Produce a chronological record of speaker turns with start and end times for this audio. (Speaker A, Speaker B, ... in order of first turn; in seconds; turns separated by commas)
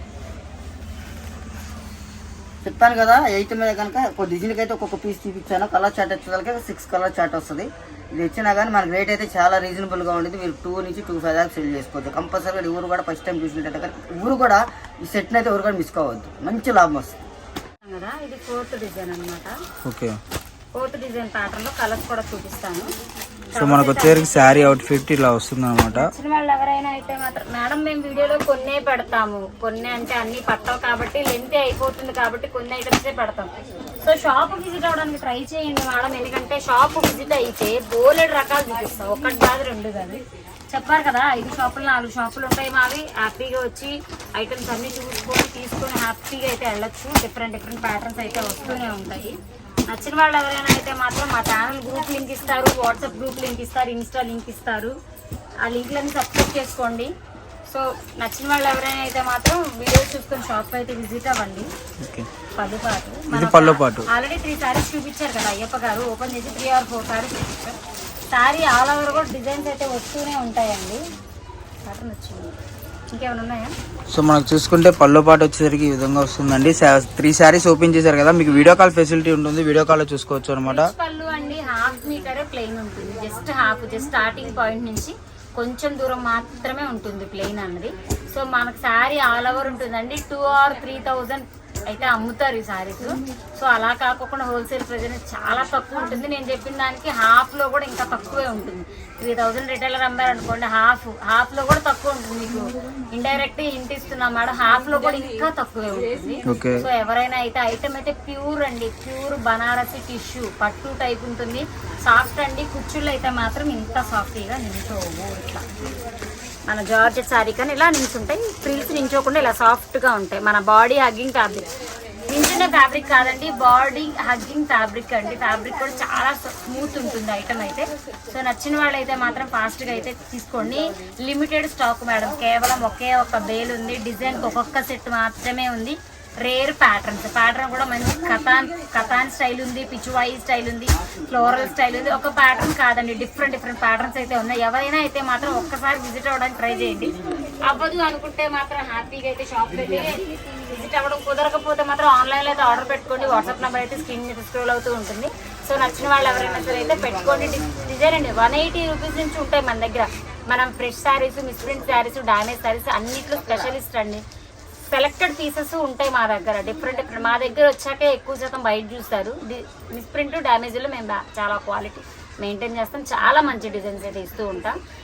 Speaker A: 2.6-17.2, Speaker B: 17.9-19.5, Speaker C: 19.9-20.2, Speaker B: 20.8-22.9, Speaker B: 23.5-24.8, Speaker C: 23.6-26.1, Speaker B: 25.9-33.5, Speaker B: 34.0-40.2, Speaker B: 40.7-49.4, Speaker B: 49.9-54.9, Speaker B: 55.6-57.1, Speaker B: 57.7-61.7, Speaker C: 62.0-62.3, Speaker B: 62.6-67.8, Speaker C: 63.3-64.1, Speaker B: 68.3-71.0, Speaker B: 71.8-72.5, Speaker B: 73.1-73.7, Speaker C: 74.1-80.9, Speaker B: 80.7-115.6, Speaker C: 106.5-106.8, Speaker B: 116.7-121.7, Speaker B: 122.3-164.2, Speaker A: 156.3-157.9, Speaker B: 164.9-174.8